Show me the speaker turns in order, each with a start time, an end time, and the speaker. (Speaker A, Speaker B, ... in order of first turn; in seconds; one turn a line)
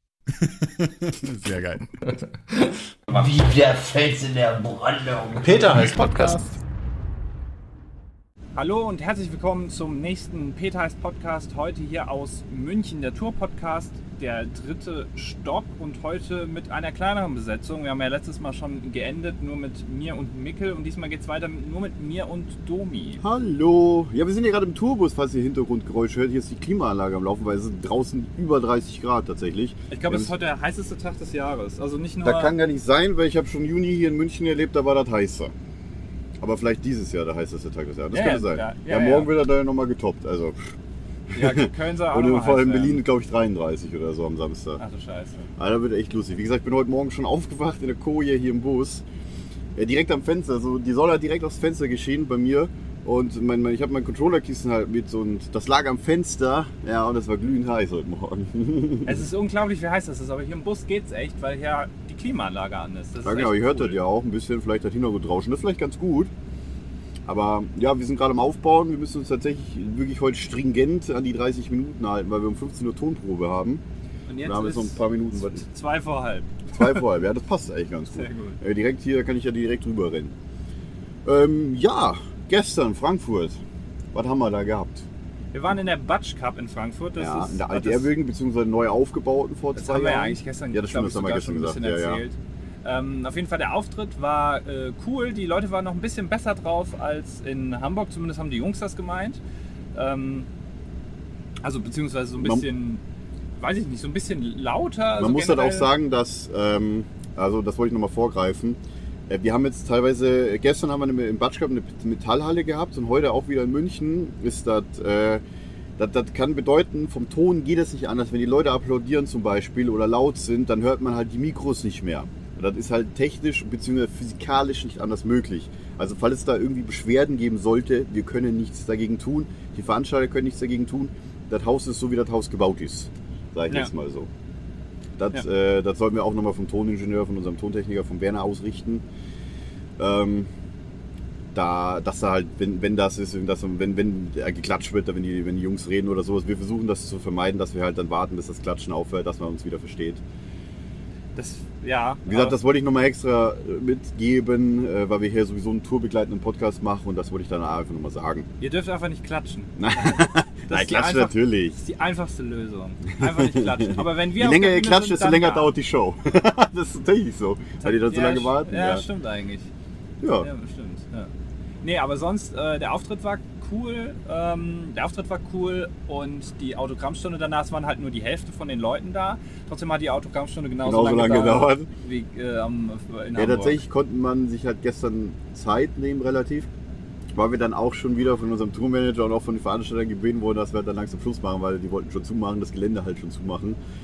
Speaker A: 0.6-1.8
Speaker B: 3.1-6.5
Speaker A: 5.4-6.2
Speaker C: 8.5-23.2
Speaker A: 23.2-30.3
Speaker C: 29.9-32.6
Speaker A: 32.2-35.5
Speaker A: 36.4-40.7
Speaker C: 38.1-39.3
Speaker A: 41.3-44.8
Speaker C: 41.3-43.0
Speaker C: 44.8-45.5
Speaker A: 45.6-49.0
Speaker A: 49.8-59.2
Speaker C: 59.0-64.0
Speaker A: 63.2-66.3
Speaker A: 67.2-73.8
Speaker C: 74.3-77.0
Speaker A: 74.4-75.6
Speaker A: 76.7-80.3
Speaker C: 78.1-78.6
Speaker A: 81.2-83.6
Speaker A: 84.1-85.0
Speaker C: 85.5-88.1
Speaker A: 87.2-92.2
Speaker C: 89.8-99.4
Speaker C: 99.9-100.5
Speaker C: 101.6-103.0
Speaker A: 102.4-102.7
Speaker C: 103.6-105.9
Speaker A: 105.2-115.4
Speaker A: 116.0-134.3
Speaker A: 135.2-139.0
Speaker A: 140.0-140.5
Speaker A: 141.5-150.2
Speaker C: 151.3-152.6
Speaker A: 152.2-158.5
Speaker C: 158.6-165.7
Speaker A: 159.8-161.8
Speaker A: 163.2-169.0
Speaker C: 167.8-169.7
Speaker A: 170.2-170.5
Speaker C: 170.4-171.3
Speaker C: 171.8-183.8
Speaker A: 180.8-181.9
Speaker A: 183.3-186.7
Speaker A: 187.3-193.8